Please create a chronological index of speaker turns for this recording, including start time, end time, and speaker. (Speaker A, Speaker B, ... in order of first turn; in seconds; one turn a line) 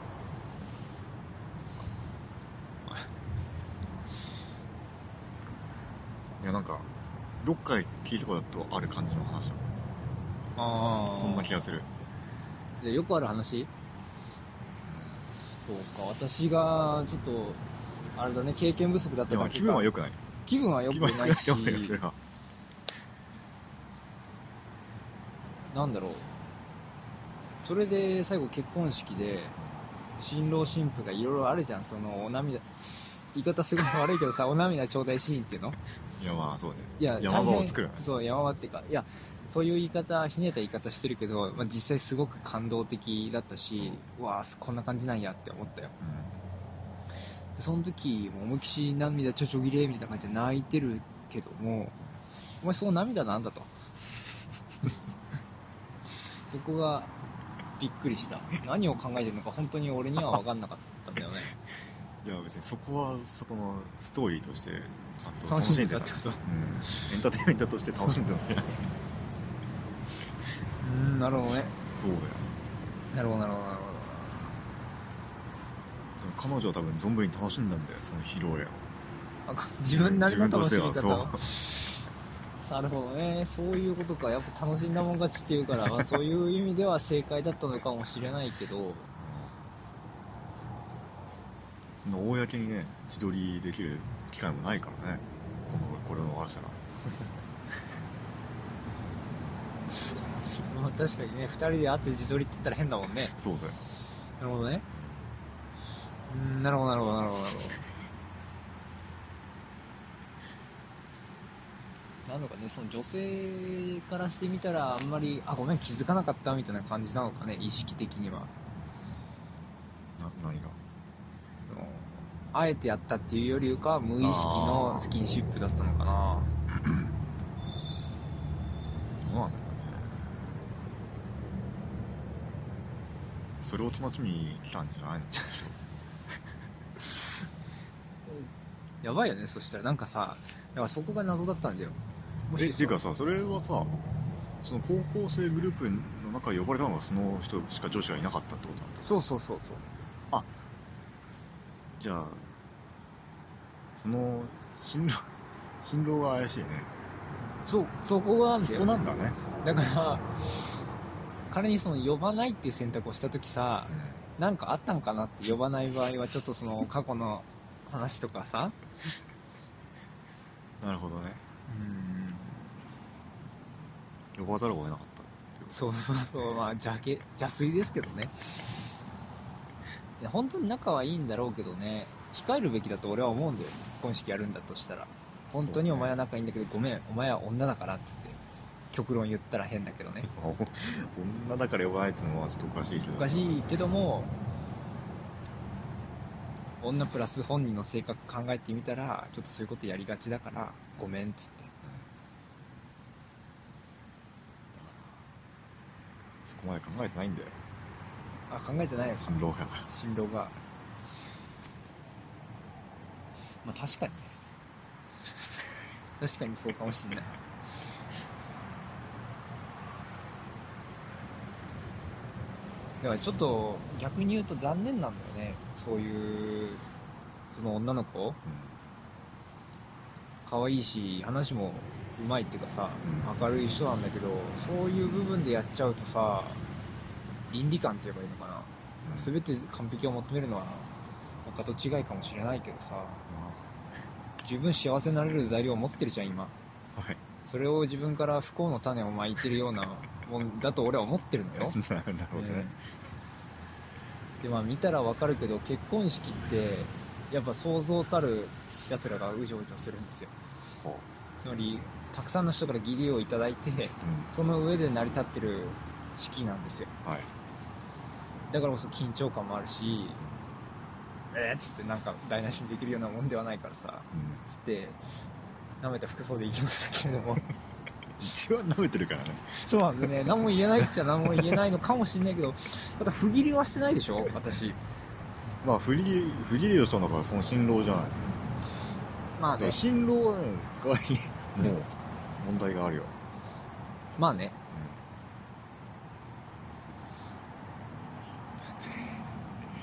Speaker A: 6.4-6.9
Speaker A: 7.4-9.6
Speaker B: 10.6-11.6
Speaker A: 11.1-11.9
Speaker B: 12.8-13.7
Speaker A: 14.8-15.3
Speaker B: 15.6-17.6
Speaker B: 18.1-19.9
Speaker A: 19.3-20.2
Speaker B: 20.4-22.0
Speaker A: 20.9-22.2
Speaker B: 25.7-26.3
Speaker B: 27.6-29.6
Speaker A: 29.6-29.9
Speaker B: 30.2-35.8
Speaker A: 36.2-38.0
Speaker B: 37.0-45.9
Speaker A: 43.8-44.0
Speaker A: 46.0-46.4
Speaker B: 47.5-52.0
Speaker B: 52.6-53.7
Speaker B: 56.5-57.1
Speaker B: 57.8-61.5
Speaker A: 62.2-69.0
Speaker B: 65.5-67.1
Speaker B: 70.8-71.8
Speaker A: 71.9-72.5
Speaker B: 73.1-74.6
Speaker A: 76.2-78.9
Speaker B: 79.5-81.9
Speaker A: 79.9-81.5
Speaker B: 82.6-89.1
Speaker A: 89.1-89.5
Speaker A: 92.0-96.8
Speaker B: 100.4-103.3
Speaker A: 103.3-103.8
Speaker B: 104.4-104.8
Speaker A: 104.9-105.3
Speaker B: 106.3-107.8
Speaker B: 112.2-118.5
Speaker A: 120.2-120.8
Speaker B: 121.6-126.5
Speaker A: 124.2-125.1
Speaker A: 129.2-130.3
Speaker A: 133.6-135.8
Speaker B: 139.0-143.0
Speaker A: 142.6-143.9
Speaker A: 144.6-149.0
Speaker B: 149.0-149.9
Speaker A: 152.0-152.5
Speaker A: 154.0-155.3
Speaker A: 155.8-156.9
Speaker B: 157.7-159.0
Speaker A: 158.6-159.4
Speaker B: 159.6-160.7
Speaker B: 161.5-168.8
Speaker A: 163.9-164.2
Speaker A: 170.8-171.4
Speaker B: 171.7-172.7
Speaker A: 174.3-175.9
Speaker B: 175.7-178.3
Speaker B: 180.2-188.4
Speaker A: 185.6-186.1
Speaker B: 188.9-190.3
Speaker A: 190.2-193.6
Speaker B: 193.1-194.3
Speaker B: 196.8-201.7
Speaker A: 201.8-202.1
Speaker A: 204.7-205.2
Speaker A: 206.4-207.6
Speaker B: 208.5-210.5
Speaker A: 209.2-209.9
Speaker B: 213.6-214.3
Speaker B: 216.2-217.4
Speaker B: 223.0-226.8
Speaker B: 227.5-228.4
Speaker A: 228.4-228.8
Speaker B: 230.4-236.7
Speaker A: 233.0-233.3
Speaker B: 237.5-240.9
Speaker A: 239.0-239.3
Speaker B: 241.4-243.2
Speaker A: 243.3-243.6
Speaker B: 244.4-246.5
Speaker A: 246.9-247.2
Speaker B: 247.4-251.8
Speaker A: 251.6-252.7
Speaker B: 252.3-252.8
Speaker B: 254.4-260.3
Speaker A: 260.8-261.1
Speaker B: 261.4-266.9
Speaker A: 264.0-264.3
Speaker A: 267.0-267.3
Speaker B: 268.5-270.2
Speaker B: 271.3-275.0
Speaker A: 274.1-274.4
Speaker B: 275.8-277.5
Speaker A: 278.2-280.1
Speaker B: 279.5-284.8
Speaker A: 280.9-281.3
Speaker A: 285.6-288.3
Speaker B: 289.4-289.8
Speaker A: 289.6-293.1
Speaker B: 294.1-294.6
Speaker A: 294.7-295.0
Speaker A: 298.7-299.2